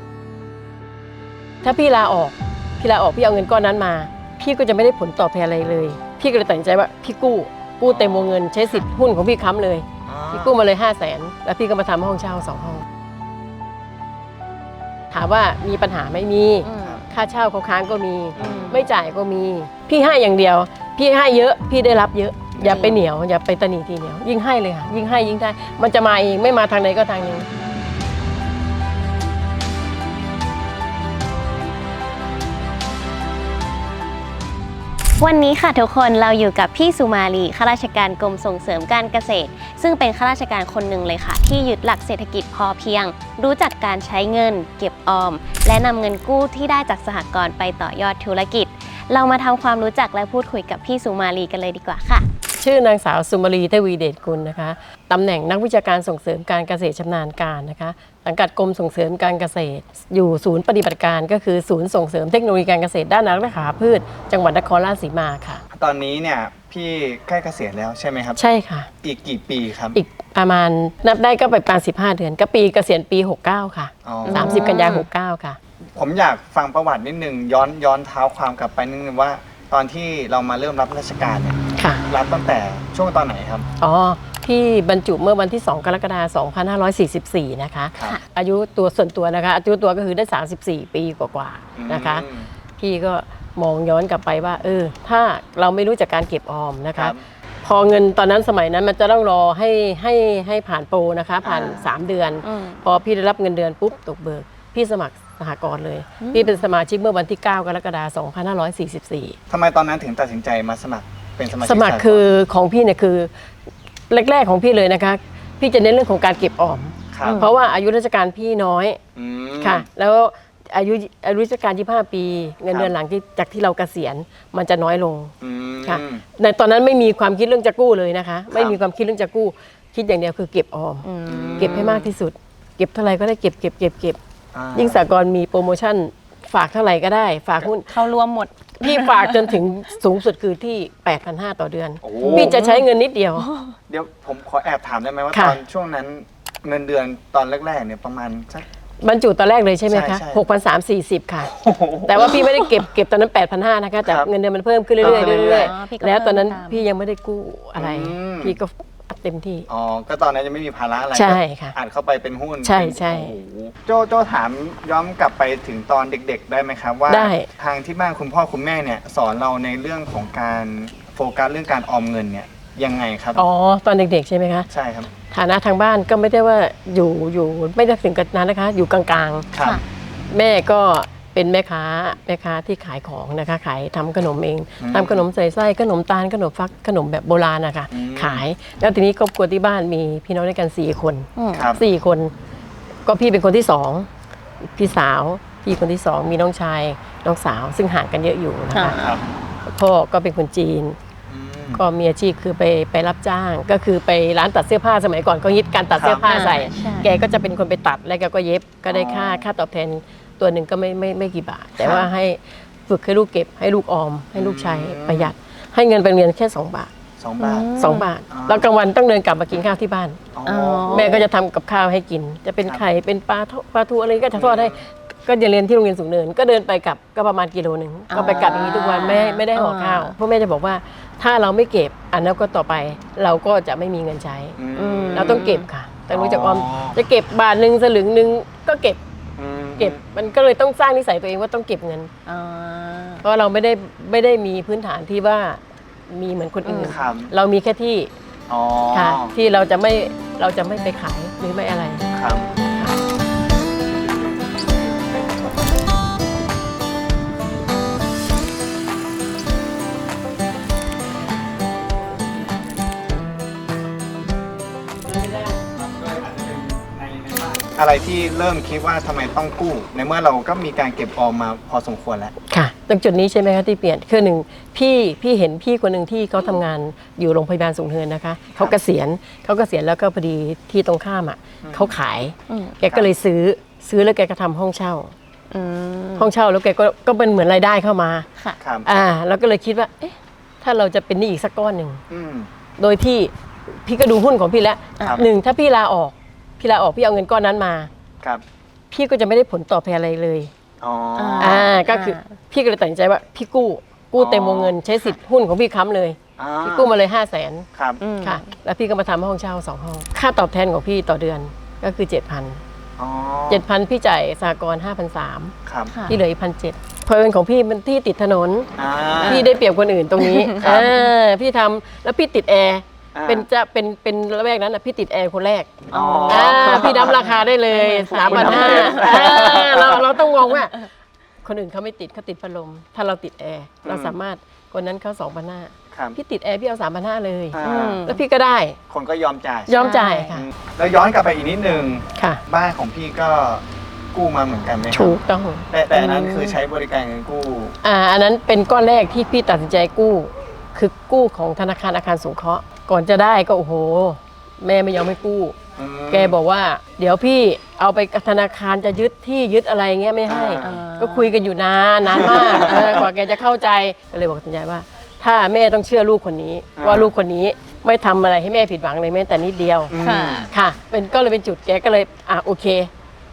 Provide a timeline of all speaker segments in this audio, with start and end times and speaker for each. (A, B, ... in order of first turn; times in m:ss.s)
0:01.6-0:12.8 A
0:07.8-0:08.4 B
0:10.0-0:10.6 B
0:15.1-0:27.5 A
0:16.6-0:17.0 C
0:16.8-0:17.0 B
0:18.4-0:18.7 B
0:18.4-0:18.9 C
0:22.5-0:22.9 B
0:22.6-0:23.0 C
0:35.2-0:52.3 C
0:52.6-1:05.6 A
1:05.7-1:08.4 B
1:08.4-1:08.9 A
1:09.0-1:10.0 B
1:09.9-1:15.6 A
1:14.0-1:14.7 B
1:14.2-1:15.1 C
1:15.9-1:23.7 B
1:21.8-1:22.0 A
1:23.8-1:49.4 A
1:31.8-1:32.5 B
1:36.9-1:37.2 B
1:41.4-1:41.9 B
1:42.4-1:42.8 C
1:46.2-1:46.6 C
1:49.5-1:52.3 B
1:51.6-1:53.3 A
1:54.1-1:59.0 A
1:57.1-1:57.5 B
1:57.2-1:57.5 C
1:59.1-1:59.9 B
1:59.6-2:05.3 A
2:05.4-2:06.2 B
2:05.8-2:11.0 A
2:08.5-2:08.8 B
2:11.0-2:12.1 C
2:11.2-2:12.0 B
2:11.6-2:14.2 A
2:14.5-2:15.0 B
2:14.7-2:17.9 A
2:17.6-2:19.6 C
2:18.8-2:23.5 A
2:22.0-2:22.6 B
2:22.2-2:22.8 C
2:23.4-2:23.8 C
2:23.9-2:28.6 B
2:25.3-2:25.6 A
2:29.0-2:39.7 A
2:29.9-2:30.4 B
2:31.5-2:32.7 B
2:35.0-2:35.7 B
2:35.0-2:36.8 C
2:37.8-2:38.6 B
2:39.7-2:53.4 B
2:41.1-2:41.8 A
2:42.6-2:43.3 A
2:47.1-2:47.5 A
2:53.4-2:54.7 A
2:54.7-2:55.1 B
2:55.3-2:59.5 A
2:59.5-2:59.8 B
3:00.3-3:12.3 A
3:04.8-3:05.2 B
3:07.9-3:08.4 B
3:11.4-3:11.7 C
3:11.5-3:11.8 B
3:13.0-3:14.1 A
3:14.6-3:19.0 A
3:18.7-3:19.2 C
3:19.0-3:19.2 B
3:19.6-3:21.0 A
3:21.3-3:21.8 B
3:21.7-3:36.9 A
3:25.9-3:26.3 B
3:26.2-3:27.1 C
3:28.9-3:29.4 B
3:31.8-3:32.1 B
3:34.3-3:35.3 B
3:37.2-3:37.7 B
3:37.4-3:38.1 C
3:37.8-3:40.3 A
3:38.3-3:38.7 B
3:40.3-3:41.2 B
3:40.4-3:41.2 C
3:40.9-3:54.6 A
3:44.3-3:44.9 B
3:48.1-3:50.1 C
3:48.2-3:48.7 B
3:54.6-3:55.4 B
3:54.7-3:55.7 C
3:55.1-3:59.0 A
3:56.1-3:57.0 B
3:59.4-4:00.0 B
3:59.8-4:02.1 A
4:02.2-4:03.2 C
4:03.2-4:08.1 A
4:06.6-4:07.0 C
4:06.8-4:07.3 B
4:08.5-4:09.3 B
4:08.9-4:12.1 A
4:12.1-4:12.5 B
4:12.6-4:13.0 A
4:25.6-4:32.3 B
4:32.5-4:45.1 A
4:41.6-4:41.9 B
4:42.5-4:42.8 C
4:45.5-4:46.3 C
4:46.2-4:48.3 A
4:48.6-4:48.9 B
4:48.8-4:52.0 A
4:52.1-4:52.5 B
4:52.8-4:53.3 A
4:53.8-4:57.9 A
4:58.9-5:00.5 A
5:00.8-5:01.7 B
5:01.2-5:02.4 C
5:01.4-5:07.7 A
5:04.2-5:04.7 B
5:06.4-5:06.9 B
5:07.8-5:08.0 B
5:08.0-5:08.5 C
5:08.2-5:12.6 A
5:13.0-5:13.6 B
5:13.5-5:15.5 A
5:15.6-5:15.9 B
5:15.9-5:16.2 C
5:16.1-5:18.7 A
5:18.8-5:19.5 B
5:19.2-5:19.5 C
5:19.2-5:30.9 A
5:20.2-5:20.7 C
5:20.6-5:20.9 B
5:23.1-5:23.5 B
5:25.9-5:27.3 B
5:25.9-5:29.8 C
5:28.2-5:30.1 B
5:31.4-5:38.8 A
5:33.8-5:34.2 B
5:35.9-5:36.2 B
5:37.5-5:38.0 B
5:37.6-5:38.2 C
5:38.9-5:39.8 B
5:39.7-5:40.4 A
5:39.7-5:40.4 C
5:40.3-5:45.2 B
5:42.2-5:42.4 A
5:44.9-5:45.7 A
5:45.7-5:47.8 B
5:45.9-5:46.6 C
5:47.8-5:55.5 A
5:55.8-5:56.4 B
5:56.1-6:09.9 A
6:00.2-6:00.8 B
6:00.6-6:01.3 C
6:02.1-6:02.7 C
6:02.1-6:03.0 B
6:06.8-6:07.1 B
6:09.9-6:10.5 B
6:10.0-6:10.5 C
6:10.5-6:12.9 A